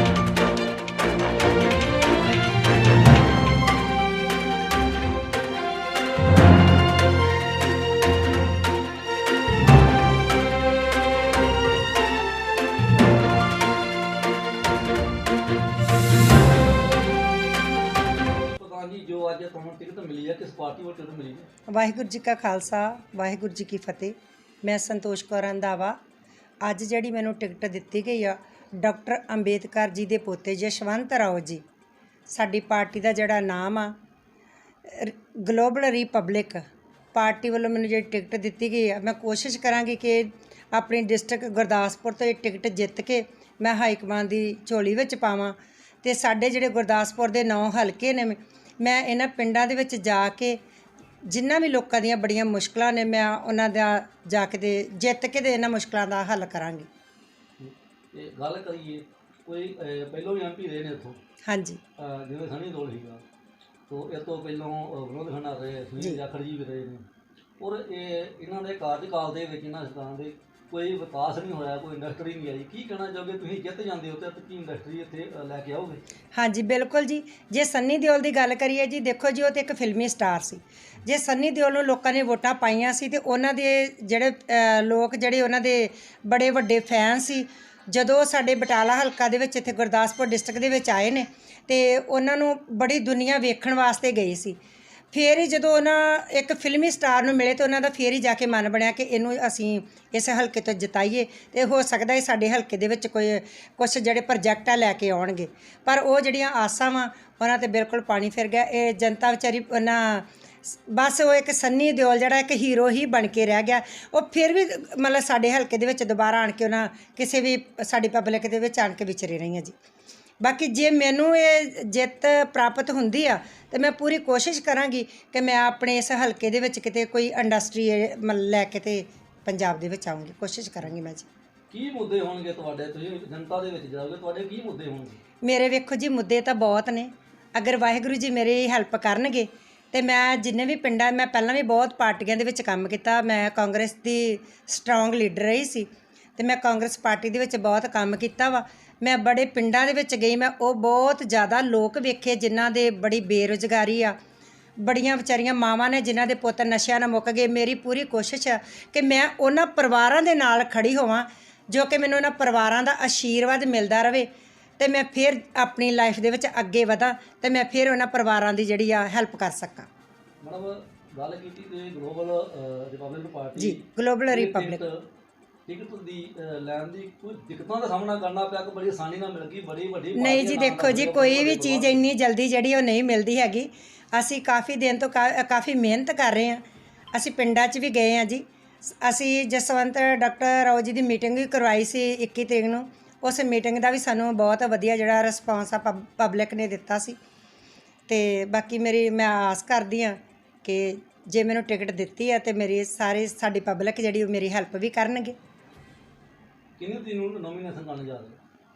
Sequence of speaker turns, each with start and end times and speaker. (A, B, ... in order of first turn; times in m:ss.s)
0:18.4-0:21.5 A
0:21.7-0:26.0 B
0:26.6-0:31.6 B
0:32.3-0:34.0 B
0:34.8-0:50.6 B
0:51.2-0:56.9 B
0:57.6-1:01.2 A
1:01.4-1:01.8 B
1:02.0-1:03.2 A
1:03.9-1:07.0 A
1:07.6-1:16.0 A
1:16.3-1:34.6 B
1:35.1-1:59.7 B
2:00.4-2:11.3 B
2:11.7-2:15.2 A
2:15.4-2:34.2 B
2:34.8-2:49.9 B
2:50.4-2:55.0 A
2:53.5-2:54.8 B
2:55.6-3:02.1 A
3:00.1-3:17.2 B
3:18.1-3:25.4 B
3:26.8-3:28.4 A